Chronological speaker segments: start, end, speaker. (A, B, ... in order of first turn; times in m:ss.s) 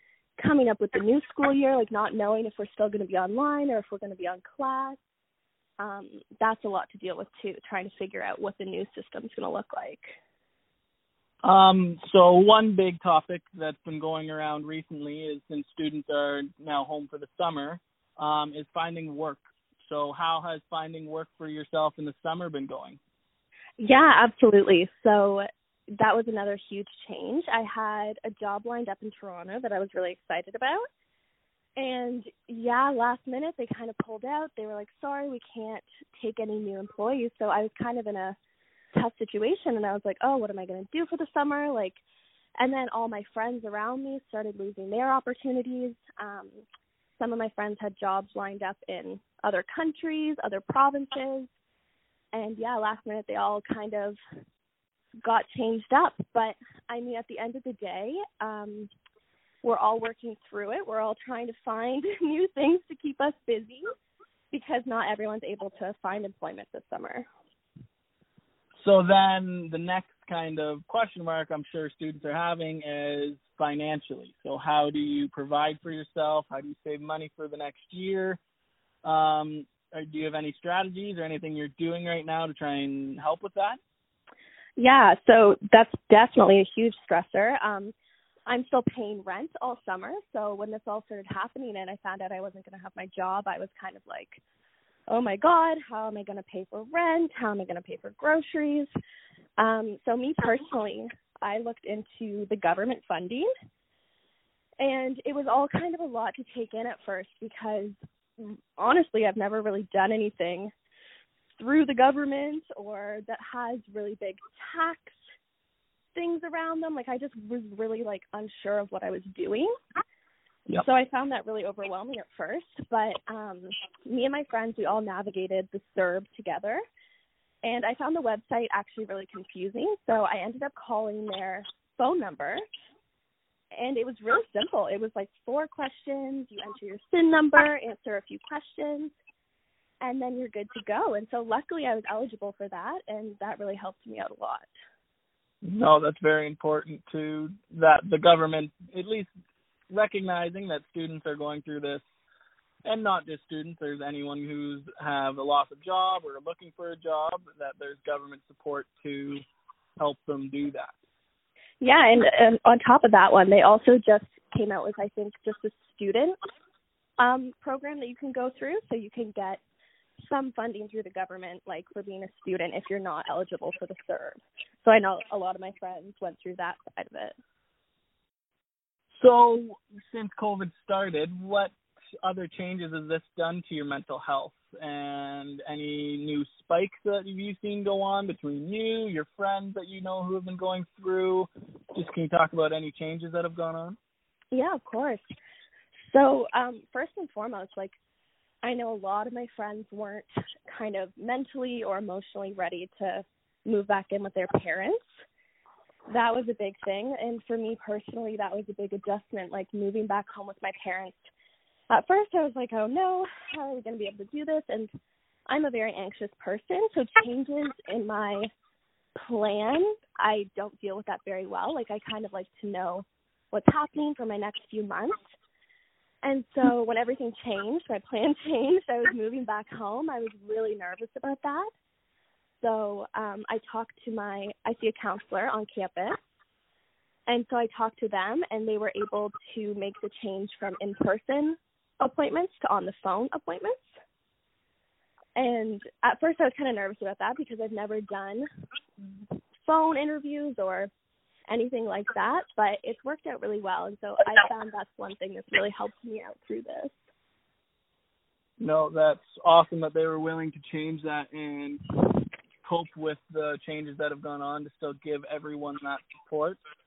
0:00.4-0:05.0 A
0:05.8-0:10.1 A
0:11.4-0:23.0 B
0:23.8-0:30.8 A
0:31.8-0:38.4 A
0:38.9-0:42.0 A
0:42.6-0:46.6 A
0:47.2-0:51.5 A
0:52.3-0:54.2 A
0:55.2-0:58.9 A
0:59.6-1:03.8 A
1:04.5-1:07.2 A
1:08.8-1:18.4 B
1:19.0-1:23.8 B
1:24.8-1:27.9 A
1:28.5-1:34.4 A
1:35.1-1:38.9 A
1:39.6-1:43.5 A
1:44.8-1:50.7 A
1:51.6-1:55.2 A
1:56.1-1:59.7 A
2:00.8-2:06.8 A
2:07.6-2:12.6 A
2:13.7-2:19.1 A
2:20.0-2:24.7 A
2:25.6-2:29.3 B
2:29.9-2:32.0 B
2:32.8-2:39.4 B
2:40.0-2:40.9 B
2:41.8-2:46.3 A
2:47.2-2:49.6 A
2:50.3-2:57.3 A
2:59.1-3:14.0 B
3:14.5-3:15.2 A
3:16.0-3:18.0 A
3:18.6-3:25.1 A
3:26.1-3:31.3 A
3:31.9-3:34.9 A
3:35.5-3:38.5 A
3:39.2-3:45.2 A
3:46.2-3:51.7 A
3:52.6-3:56.2 A
3:57.3-4:03.9 A
4:05.4-4:08.4 A
4:09.6-4:10.9 A
4:11.5-4:17.0 A
4:18.6-4:22.0 B
4:22.6-4:26.6 B